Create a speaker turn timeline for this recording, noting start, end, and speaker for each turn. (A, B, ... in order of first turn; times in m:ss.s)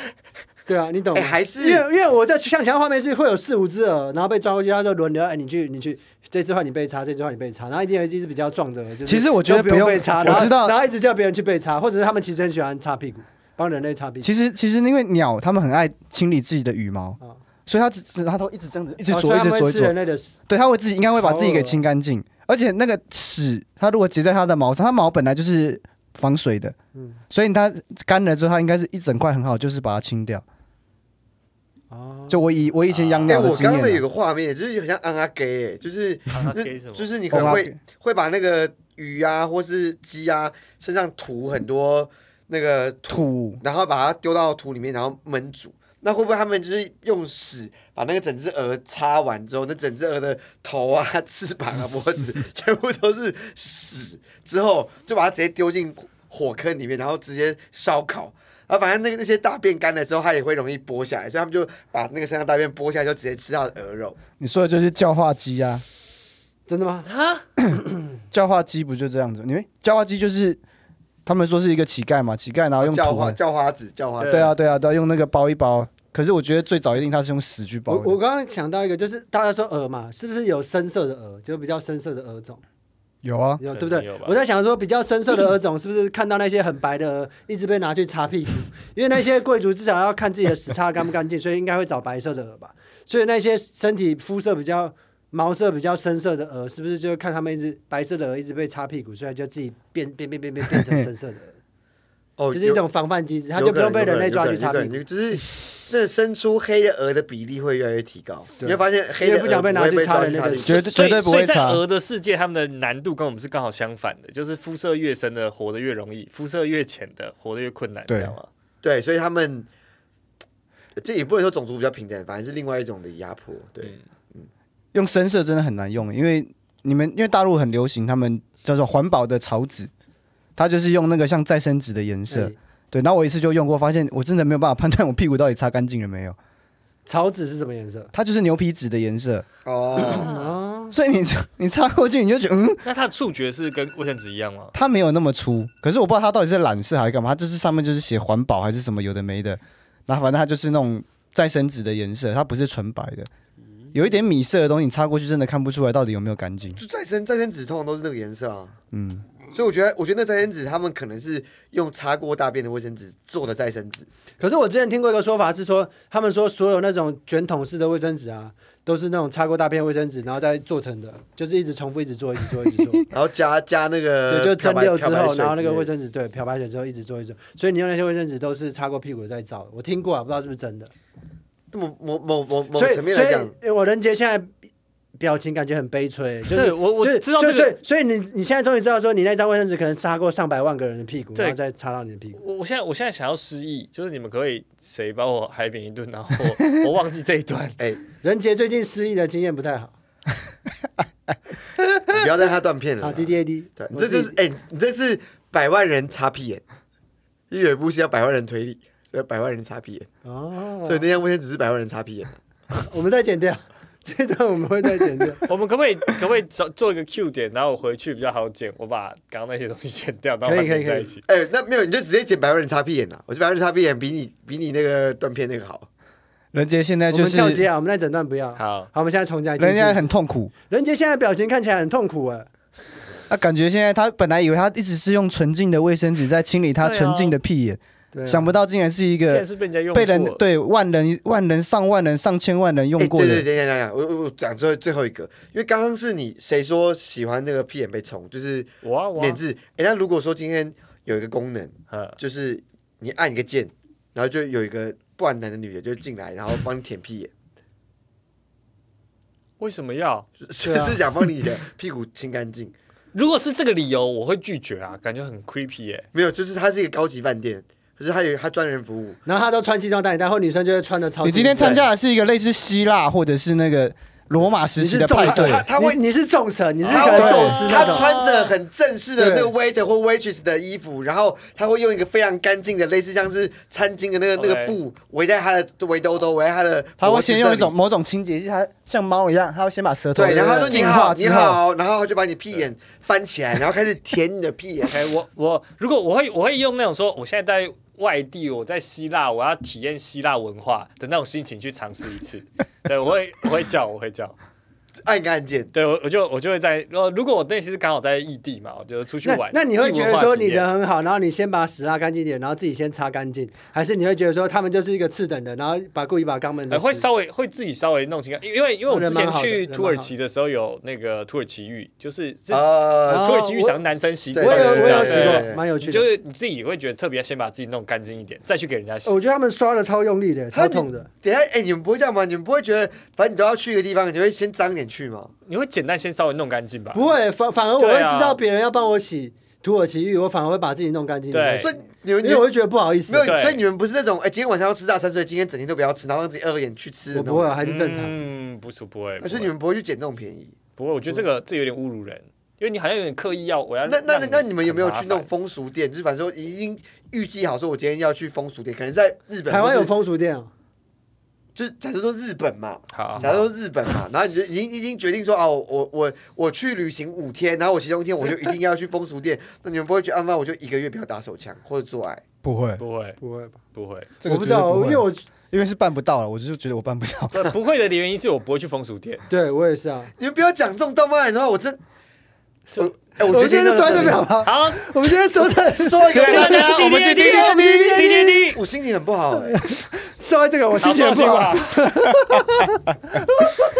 0:00.7-0:14.3 A
0:01.1-0:01.8 B
0:09.0-0:10.7 C
0:14.2-0:19.9 C
0:19.1-0:20.4 A
0:20.5-0:26.7 C
0:21.1-0:21.8 A
0:27.3-0:30.4 C
0:31.9-0:32.4 A
0:32.3-0:34.0 C
0:32.9-0:33.7 D
0:33.3-1:04.2 B
0:36.3-0:37.1 D
0:37.3-0:37.7 C
0:43.1-0:43.6 C
1:04.4-1:05.8 C
1:06.7-1:07.1 A
1:07.1-1:07.4 D
1:08.3-1:10.6 C
1:11.2-1:13.4 C
1:12.8-1:14.5 B
1:14.2-1:14.5 D
1:14.3-1:18.2 C
1:17.9-1:22.6 A
1:23.2-1:23.6 C
1:23.6-1:41.6 A
1:23.7-1:24.4 D
1:42.4-1:42.8 B
1:42.5-1:45.0 A
1:43.5-1:50.8 B
1:48.6-1:50.8 A
1:50.6-1:51.8 C
1:50.8-1:58.5 D
1:58.1-1:58.3 C
1:58.8-1:59.7 B
2:01.0-2:04.5 B
2:04.9-2:09.9 C
2:10.6-2:16.4 C
2:12.3-2:12.6 A
2:17.0-2:18.1 A
2:18.1-2:19.4 C
2:19.6-2:20.3 B
2:20.1-2:20.5 D
2:20.2-2:21.0 A
2:20.9-2:22.8 C
2:22.8-2:24.7 D
2:24.7-2:33.3 C
2:33.9-2:36.8 C
2:36.8-2:38.8 B
2:38.9-2:39.2 C
2:39.5-2:44.1 B
2:44.4-2:53.1 A
2:53.1-2:55.9 B
2:54.3-3:00.9 A
3:01.7-3:03.5 B
3:02.7-3:04.5 A
3:05.2-3:12.4 A
3:06.5-3:07.8 D
3:12.3-3:17.8 D
3:18.2-3:19.9 A
3:22.1-3:26.6 B
3:23.0-3:24.4 A
3:27.5-3:30.1 B
3:30.2-3:31.0 A
3:30.8-3:32.4 B
3:32.8-3:35.4 A
3:35.4-3:41.2 D
3:40.4-3:41.1 A
3:41.2-3:45.9 B
3:46.5-3:47.6 C
3:47.1-3:50.1 A
3:48.6-3:48.9 D
3:49.6-3:50.5 C
3:50.7-3:52.5 A
3:53.3-4:03.4 C
3:56.8-3:57.4 D
3:58.1-3:58.5 A
3:59.3-4:00.4 D
4:03.0-4:17.3 B
4:08.8-4:09.4 D
4:11.9-4:12.2 D
4:19.6-4:20.3 D
4:20.4-4:22.7 B
4:20.6-4:21.0 A
4:23.1-4:26.1 D
4:26.1-4:29.2 B
4:29.2-4:31.8 A
4:31.2-4:35.7 C
4:34.8-4:38.1 A
4:35.2-4:36.0 B
4:36.8-4:47.7 B
4:37.0-4:38.6 D
4:37.1-4:37.5 C
4:39.2-4:39.5 A
4:44.4-4:44.8 D
4:47.0-4:51.6 C
4:50.1-4:55.0 B
4:54.9-5:04.4 D
5:05.0-5:05.7 B
5:05.7-5:10.7 D
5:09.2-5:17.0 A
5:16.7-5:29.1 D
5:18.9-5:20.1 A
5:22.5-5:23.3 B
5:23.1-5:23.8 A
5:24.3-5:25.6 B
5:24.4-5:26.1 A
5:29.0-5:31.1 A
5:30.5-5:35.3 B
5:35.5-5:37.1 D
5:36.9-5:43.3 A
5:37.8-5:38.4 D
5:41.3-5:41.7 D
5:41.6-5:42.4 B
5:43.1-5:47.6 B
5:43.2-5:43.6 D
5:47.1-5:48.1 A
5:47.6-5:49.5 D
5:49.2-5:50.5 B
5:50.8-5:55.3 D
5:53.8-5:59.9 B
5:59.5-6:00.5 A
6:01.5-6:12.2 B
6:02.9-6:03.5 D
6:12.4-6:12.8 C
6:12.8-6:13.2 D
6:13.2-6:13.6 A
6:13.7-6:14.1 D
6:14.2-6:17.5 C
6:14.2-6:15.2 A
6:17.3-6:19.2 D
6:19.3-6:20.1 A
6:20.2-6:21.8 B
6:22.8-6:24.2 B
6:23.3-6:28.3 A
6:24.4-6:24.8 D
6:25.7-6:29.6 B
6:26.1-6:28.6 D
6:29.4-6:33.7 A
6:30.8-6:31.9 D